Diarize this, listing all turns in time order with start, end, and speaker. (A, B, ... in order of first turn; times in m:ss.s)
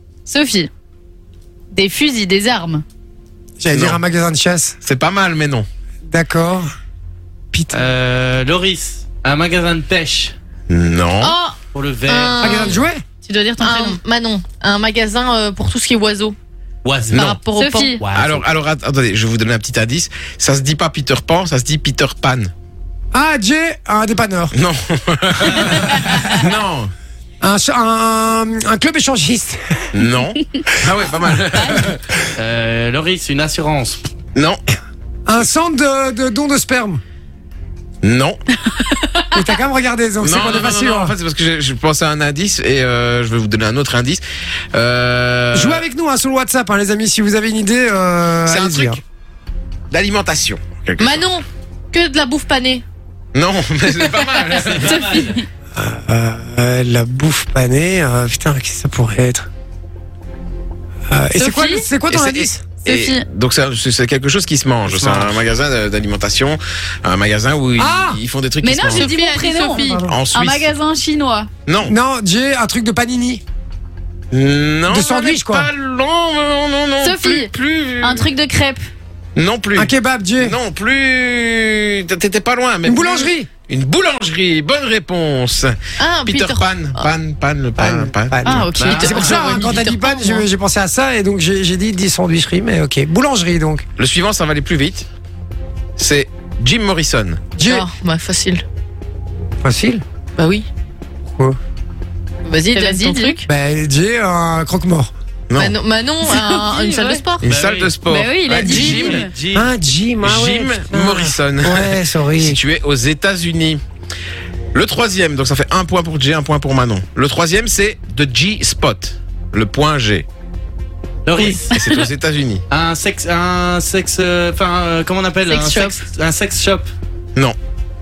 0:00.3-0:00.7 A
0:01.7-0:02.8 A
0:03.6-0:04.8 B
0:03.7-0:04.0 C
0:04.8-0:05.6 C
0:06.1-0:06.7 B
0:07.5-0:07.9 B
0:07.7-0:10.3 D
0:10.7-0:11.3 C
0:11.2-0:12.8 E
0:11.7-0:12.8 D
0:12.4-0:13.0 B
0:13.2-0:14.0 A
0:13.6-0:16.3 E
0:16.8-0:17.4 D
0:17.1-0:18.0 E
0:17.5-0:18.0 A
0:18.0-0:18.4 D
0:18.1-0:22.5 C
0:23.1-0:24.5 B
0:24.5-0:26.9 C
0:27.4-0:29.6 B
0:29.9-0:32.0 C
0:31.6-0:31.8 A
0:32.4-0:34.0 D
0:34.3-0:34.6 C
0:35.3-0:37.0 B
0:38.0-0:38.4 C
0:38.8-0:39.3 A
0:39.3-0:41.1 B
0:40.2-0:44.2 C
0:44.7-0:45.8 C
0:45.5-0:49.0 B
0:48.4-0:49.0 C
0:49.9-0:51.2 C
0:51.0-0:52.8 E
0:53.3-0:55.2 C
0:54.5-0:55.4 D
0:54.8-0:55.4 A
0:55.8-0:59.5 B
1:01.1-1:02.7 B
1:01.4-1:01.8 A
1:02.1-1:09.1 C
1:02.8-1:03.2 A
1:04.9-1:05.4 B
1:07.8-1:08.2 B
1:08.6-1:11.5 A
1:08.9-1:10.0 E
1:09.7-1:10.2 B
1:10.1-1:10.7 C
1:11.6-1:11.9 C
1:11.8-1:13.4 B
1:14.3-1:18.3 C
1:14.9-1:15.7 B
1:17.0-1:18.8 A
1:19.4-1:28.6 C
1:19.8-1:20.6 B
1:22.8-1:23.5 B
1:26.0-1:27.1 E
1:27.8-1:33.8 B
1:28.4-1:28.9 A
1:28.8-1:29.5 D
1:28.8-1:30.4 E
1:34.0-1:35.0 C
1:36.0-1:37.4 C
1:37.6-1:37.8 B
1:37.6-1:38.6 E
1:39.6-1:40.0 B
1:40.4-1:40.6 E
1:41.3-1:41.6 B
1:42.4-1:43.4 E
1:42.7-1:43.4 A
1:43.4-1:45.1 B
1:45.6-1:47.4 E
1:46.2-1:47.2 A
1:47.4-1:49.3 C
1:47.4-1:48.0 D
1:48.0-1:49.3 A
1:48.6-1:49.7 D
1:48.7-1:52.6 B
1:50.2-1:53.8 C
1:54.7-2:00.2 C
2:01.2-2:01.8 D
2:01.4-2:02.6 C
2:02.7-2:06.9 D
2:05.5-2:05.9 A